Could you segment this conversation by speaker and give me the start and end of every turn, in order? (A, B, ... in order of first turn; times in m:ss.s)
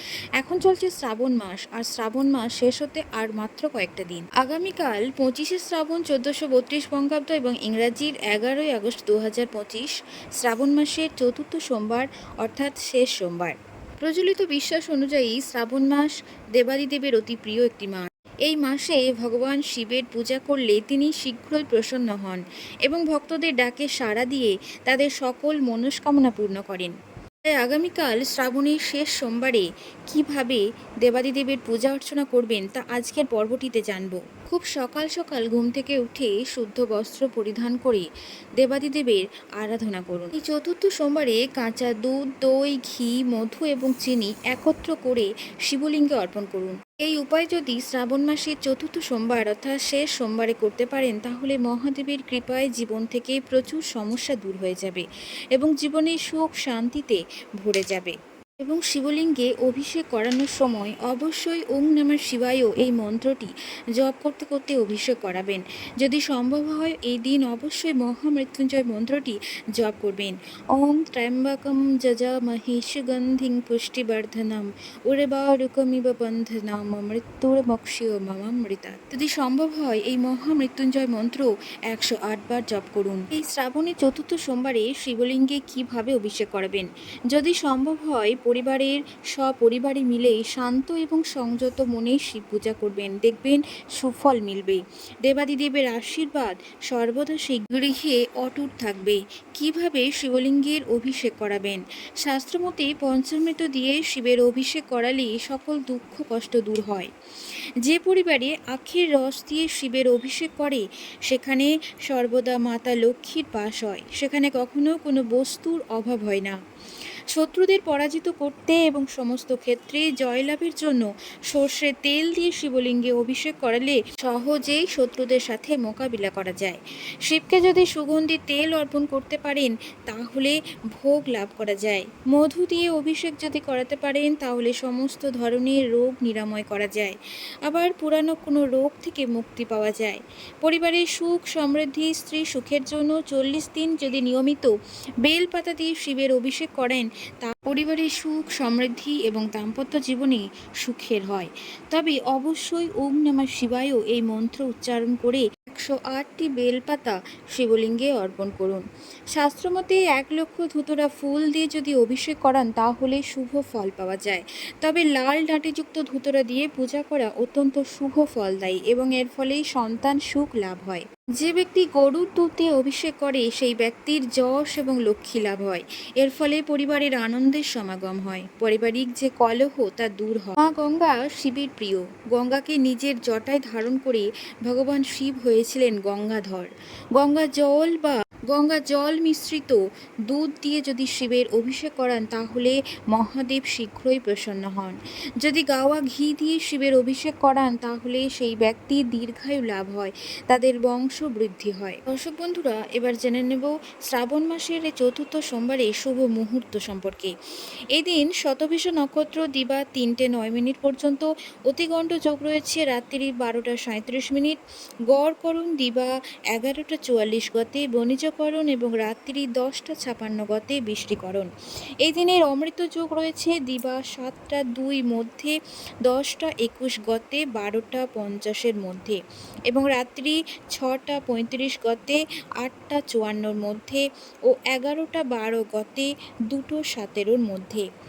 0:00.4-0:26.9 A
0:27.6-0:38.0 A
0:38.6-1:47.1 A
1:47.9-1:56.6 A
1:57.4-2:24.7 A
2:25.2-2:38.8 A
2:39.4-3:27.3 A
3:28.0-3:34.6 A
3:35.1-3:41.5 A
3:42.0-3:49.2 A
3:49.7-3:57.8 A